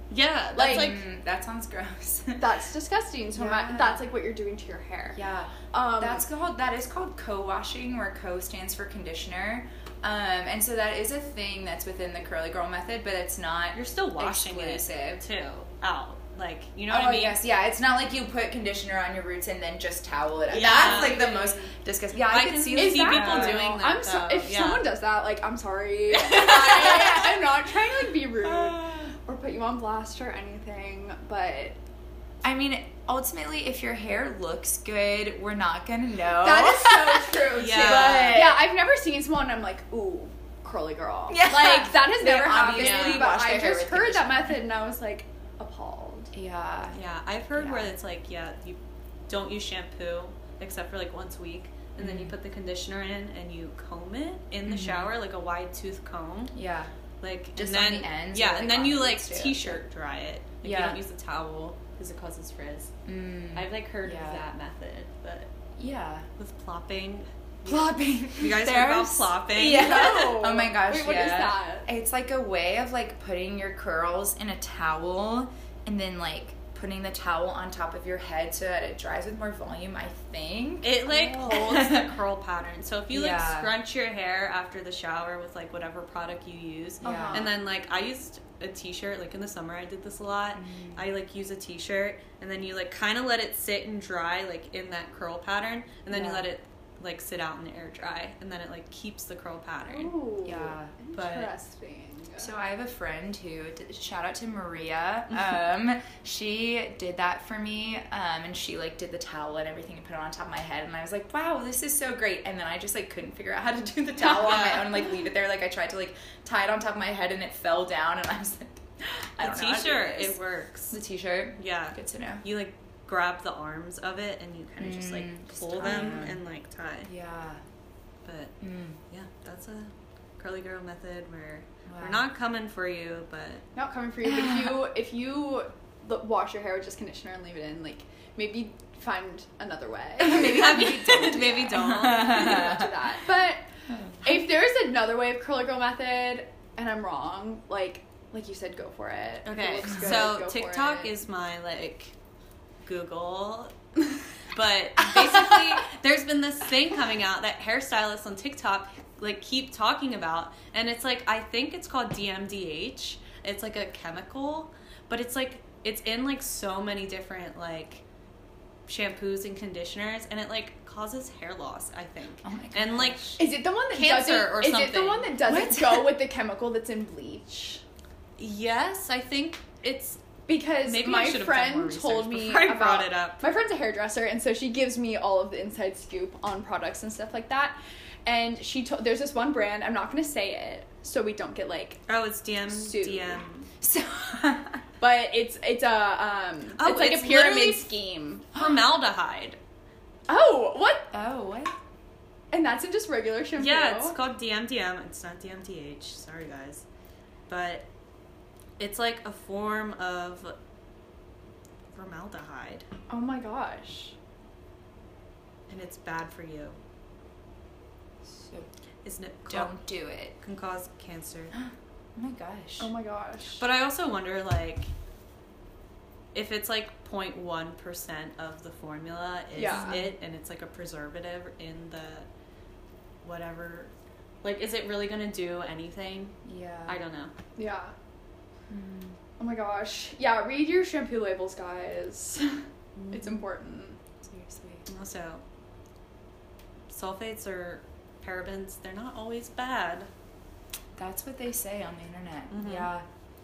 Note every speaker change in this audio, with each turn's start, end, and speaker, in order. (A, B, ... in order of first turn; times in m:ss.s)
0:00.1-0:01.0 A
0:00.6-0:02.5 B
0:00.6-0:00.9 C
0:02.4-0:05.2 C
0:03.3-0:04.0 B
0:05.1-0:15.2 B
0:05.7-0:06.2 C
0:13.7-0:17.4 A
0:16.9-0:23.6 B
0:20.5-0:21.3 A
0:20.5-0:21.7 C
0:22.2-0:24.8 A
0:22.7-0:31.7 C
0:26.2-0:27.1 A
0:26.6-0:27.4 B
0:28.4-0:29.1 B
0:32.4-0:38.6 B
0:36.4-0:46.3 C
0:37.6-0:38.4 A
0:41.3-0:44.5 B
0:42.8-0:43.3 A
0:46.3-0:47.0 B
0:46.9-0:56.5 A
0:47.5-0:47.9 B
0:52.0-0:52.3 B
0:54.6-0:55.1 B
0:56.5-0:56.9 B
0:57.2-1:02.9 A
0:57.6-0:59.8 B
1:00.6-1:01.0 B
1:03.0-1:04.4 B
1:03.5-1:05.5 A
1:05.8-1:06.3 B
1:06.4-1:10.3 A
1:07.6-1:22.2 B
1:09.6-1:11.9 C
1:20.8-1:40.1 A
1:23.1-1:23.7 B
1:27.0-1:27.5 B
1:27.0-1:27.4 C
1:30.5-1:31.0 B
1:36.1-1:36.5 B
1:39.9-1:42.5 C
1:40.4-1:40.9 B
1:41.1-1:41.5 A
1:42.4-2:00.4 B
1:54.4-1:54.8 A
1:59.4-2:01.0 A
2:00.9-2:02.4 B
2:01.6-2:07.1 A
2:04.8-2:06.4 B
2:07.0-2:07.6 B
2:08.2-2:08.5 A
2:08.6-2:09.0 B
2:09.1-2:13.6 A
2:11.9-2:12.2 B
2:13.7-2:21.2 C
2:14.2-2:14.8 B
2:20.2-2:23.2 B
2:20.3-2:22.6 A
2:22.0-2:23.6 C
2:23.9-2:24.4 B
2:24.2-2:31.1 C
2:29.4-2:32.1 A
2:29.9-2:30.2 B
2:32.8-2:33.7 A
2:34.4-2:48.0 A
2:35.0-2:35.8 B
2:48.9-2:55.3 A
2:52.4-2:53.3 B
2:53.4-2:57.8 C
2:55.4-2:56.1 B
2:58.4-3:00.2 A
3:00.5-3:12.0 C
3:00.8-3:03.4 A
3:12.1-3:13.7 A
3:12.7-3:13.4 C
3:13.8-3:14.8 B
3:15.0-3:18.5 C
3:16.8-3:17.9 A
3:18.5-3:19.6 A
3:20.3-3:21.1 C
3:21.1-3:21.7 B
3:22.5-3:24.2 C
3:23.6-3:26.8 A
3:27.5-3:27.8 A
3:28.8-3:30.5 A
3:31.9-3:32.9 A
3:33.1-3:34.2 C
3:35.7-3:36.8 A
3:38.2-3:38.7 B
3:39.0-3:39.7 A
3:39.5-3:40.3 B
3:40.4-3:41.5 A
3:41.5-3:42.9 B
3:42.8-3:43.6 C
3:43.6-3:44.9 A
3:46.3-3:52.3 A
3:49.5-3:50.0 C
3:49.6-3:50.1 B
3:53.2-3:53.9 A
3:54.4-3:57.3 A
3:56.4-3:57.0 B
3:57.6-3:57.9 C
3:58.7-3:59.2 B
3:59.4-4:04.0 C
4:03.0-4:03.3 B
4:04.2-4:04.8 B
4:04.9-4:05.4 A
4:06.9-4:10.1 A
4:11.0-4:13.0 B
4:12.5-4:12.9 A